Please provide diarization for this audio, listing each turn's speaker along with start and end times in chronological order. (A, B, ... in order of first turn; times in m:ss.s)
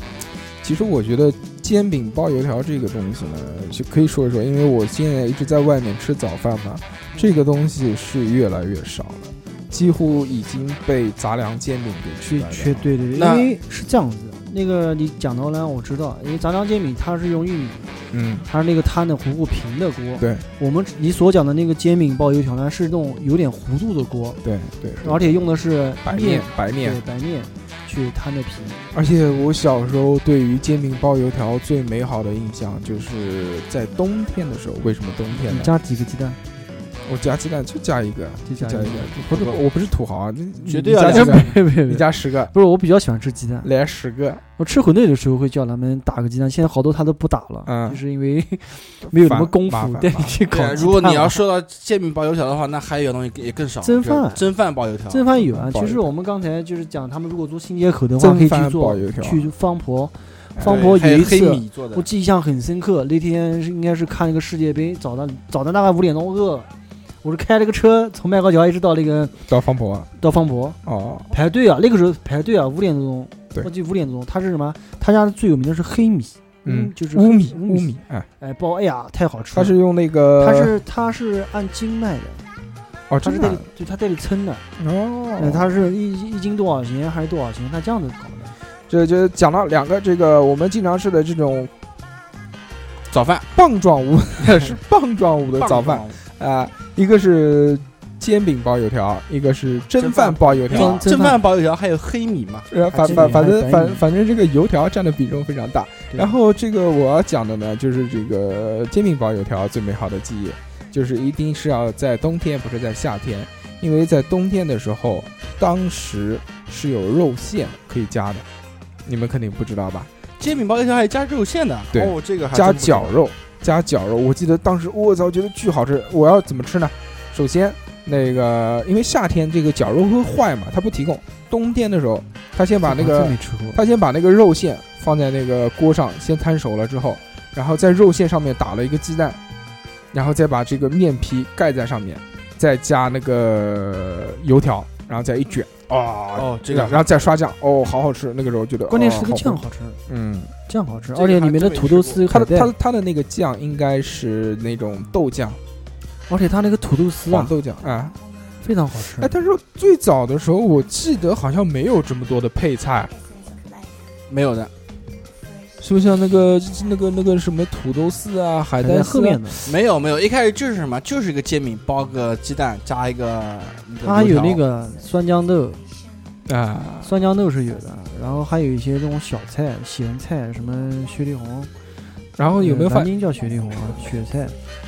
0:00.6-0:12.9 A
0:12.2-0:17.9 B
0:13.2-0:13.5 C
0:18.1-0:18.4 A
0:18.4-0:24.4 B
0:20.2-0:20.4 A
0:24.4-0:25.4 A
0:25.0-0:28.8 B
0:26.0-0:27.0 A
0:28.9-0:35.7 A
0:35.3-0:36.4 B
0:37.0-0:42.5 A
0:38.4-0:39.1 B
0:39.3-0:39.6 C
0:40.6-0:41.5 C
0:41.0-0:43.7 B
0:43.6-0:44.4 A
0:44.6-0:51.4 B
0:47.6-0:48.0 A
0:49.1-0:50.4 A
0:50.5-0:55.3 C
0:53.8-0:54.5 B
0:55.1-1:06.7 B
0:55.4-0:56.1 A
0:58.2-0:59.5 A
1:00.6-1:00.9 A
1:00.6-1:02.1 C
1:07.2-1:09.4 B
1:09.5-1:10.1 A
1:10.2-1:10.8 B
1:10.8-1:11.3 A
1:11.3-1:19.7 B
1:16.6-1:18.3 A
1:19.5-1:20.7 A
1:20.4-1:22.4 B
1:23.1-1:23.6 A
1:23.2-1:24.6 B
1:24.8-1:25.8 A
1:25.4-1:28.5 B
1:28.9-1:31.7 A
1:33.1-1:33.5 C
1:33.5-1:41.0 A
1:34.4-1:34.7 C
1:35.6-1:36.2 C
1:40.0-1:43.4 C
1:40.7-1:41.4 B
1:42.7-1:58.4 A
1:43.0-1:44.0 B
1:59.0-2:00.1 A
2:00.4-2:03.2 C
2:01.9-2:19.4 A
2:12.8-2:13.8 B
2:20.1-2:30.5 A
2:25.9-2:27.1 C
2:28.9-2:30.0 B
2:30.7-2:32.7 B
2:31.1-2:32.3 C
2:32.3-2:35.6 A
2:36.3-2:37.5 B
2:37.3-2:38.2 A
2:38.6-2:39.3 B
2:39.2-2:43.1 A
2:44.3-2:44.7 C
2:45.8-2:49.7 A
2:48.8-2:49.6 B
2:49.6-2:54.6 C
2:54.0-2:55.8 B
2:56.4-2:57.2 A
2:57.0-3:01.7 B
3:02.4-3:03.1 A
3:02.6-3:04.6 B